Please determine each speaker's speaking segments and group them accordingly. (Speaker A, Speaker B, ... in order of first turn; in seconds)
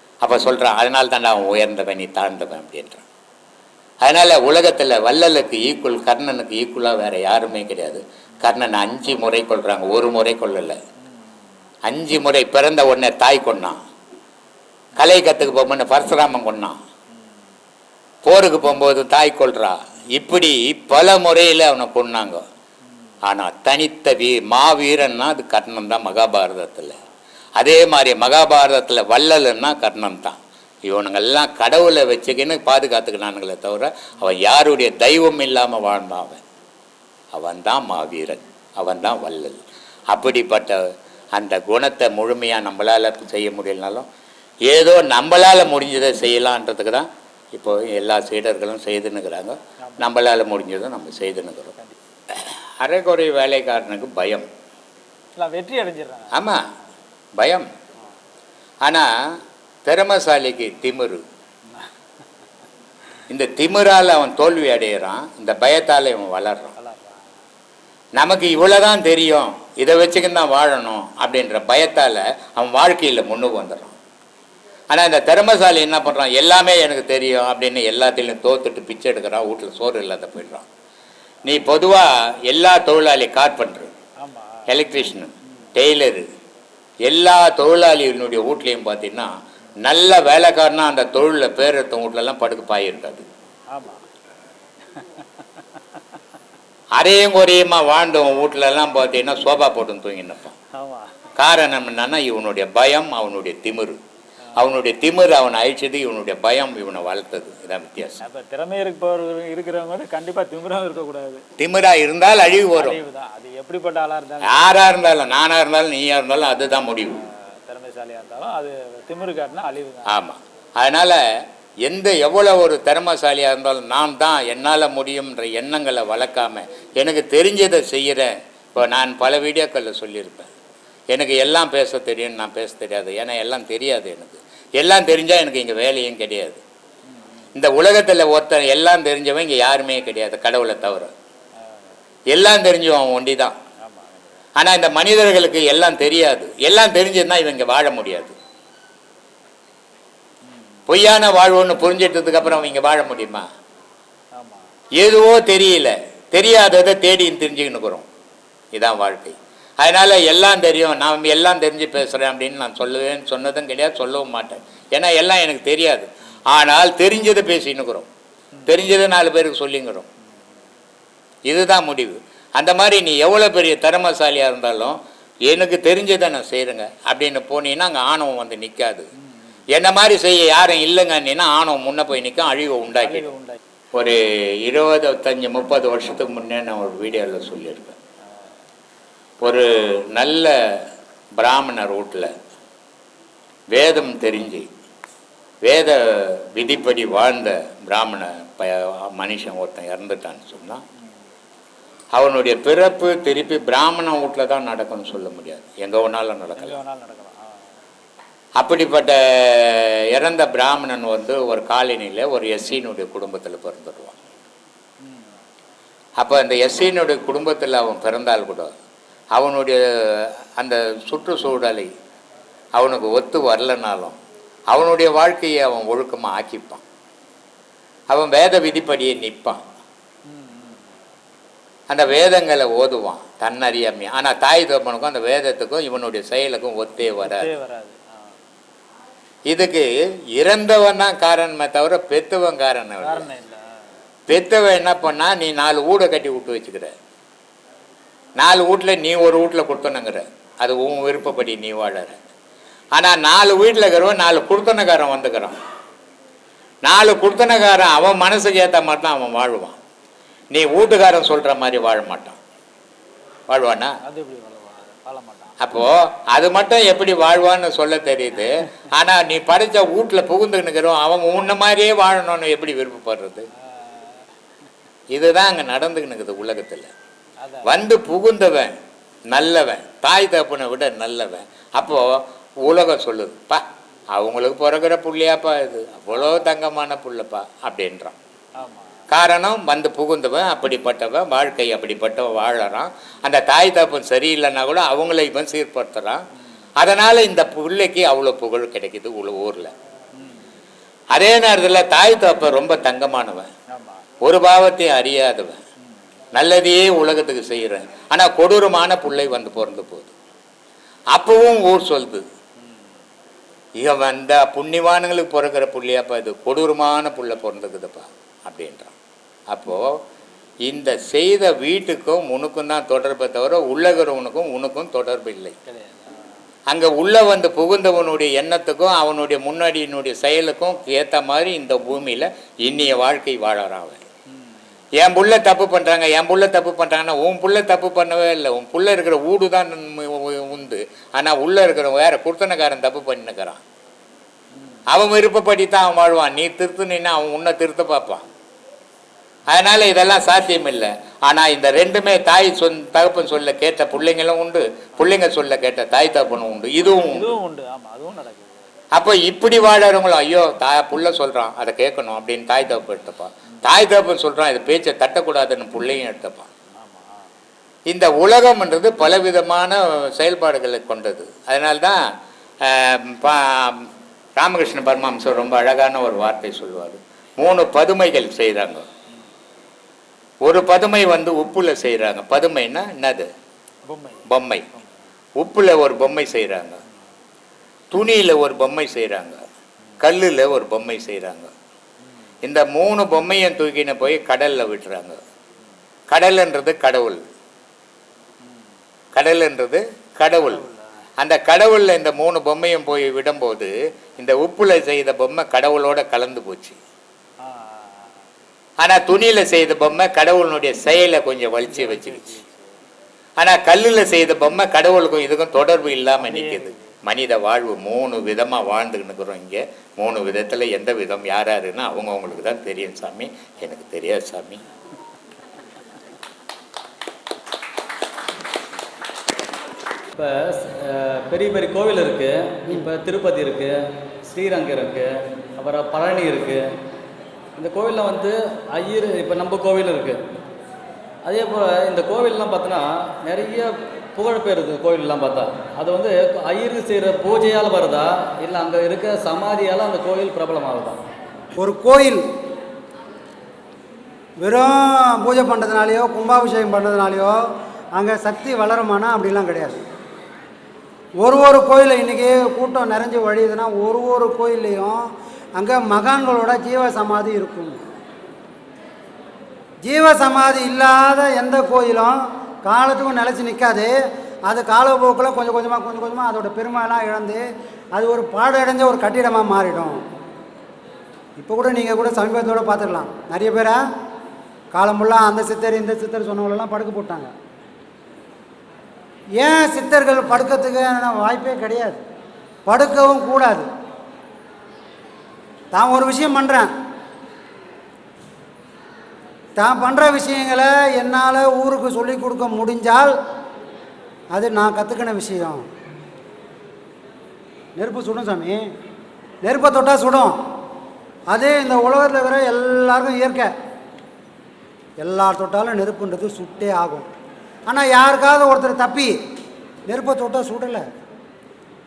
Speaker A: 0.2-3.0, 4.0-10.8, 11.9-13.8, 15.0-16.8, 18.2-22.4, 23.2-27.0, 27.6-36.4, 37.3-39.6, 40.1-40.8, 41.3-44.1, 44.7-51.7, 52.3-54.5, 56.3-56.6, 57.4-57.7, 58.8-59.1, 59.9-61.2, 63.3-66.7, 68.2-74.0, 74.9-80.7, 81.5-83.9, 84.7-86.2, 87.0-89.3, 89.8-93.2, 97.0-100.5, 101.4-104.0, 104.6-108.2, 111.6-113.0, 114.4-117.2, 120.1-121.2, 121.8-130.5, 131.1-136.6, 137.6-141.1, 142.3-143.6, 144.6-148.4, 150.9-153.5, 155.0-158.1, 158.7-168.1, 168.7-170.1, 171.5-179.1, 179.7-183.3, 184.0-187.9, 189.4-190.9, 191.4-192.3, 193.7-194.7, 195.7-200.8, 202.1-206.8, 208.6-214.2, 216.2-218.7, 219.3-221.9, 222.8-224.2, 224.7-226.8, 228.1-229.6, 231.9-237.5, 239.5-243.3, 244.3-246.9, 248.4-252.2, 252.9-255.6, 256.9-259.8, 260.5-262.4, 263.5-264.0, 265.6-273.4, 275.1-276.9, 277.6-278.7, 279.3-288.2, 289.1-296.2, 296.8-299.7, 301.1-303.5, 304.2-305.6, 306.3-310.1, 311.1-312.2, 313.8-318.9, 319.5-320.0, 320.6-325.6, 326.7-334.0, 335.0-343.6, 344.9-348.2, 349.5-357.4, 358.9-366.5, 367.9-372.0, 372.6-378.9, 380.4-383.3, 384.3-384.6, 385.4-386.8, 387.9-389.4, 390.0-391.5, 392.4-395.2, 396.1-397.2, 399.1-406.8, 408.8-412.4, 413.4-424.6
Speaker B: 55.4-56.3, 84.3-84.5, 93.7-94.0, 100.8-101.1, 108.2-111.4, 112.8-114.6, 117.7-120.1, 206.8-207.4, 230.3-230.8, 237.4-238.0, 243.0-243.6, 264.1-265.5, 288.6-288.9, 357.0-358.6, 383.9-384.2, 407.5-407.8, 411.9-412.3
Speaker C: 430.1-436.7, 437.6-440.2, 441.2-451.0
Speaker D: 451.6-452.2, 454.4-457.4, 457.9-459.8, 461.2-465.0, 465.6-467.8, 469.8-473.9, 474.5-477.4, 477.9-480.0, 481.4-483.8, 484.7-487.3, 489.4-492.0, 492.7-493.7, 495.7-496.7, 499.6-503.1, 504.3-505.6, 507.8-508.6, 509.4-510.3, 511.3-513.5, 515.0-517.1, 517.7-519.1, 519.9-520.9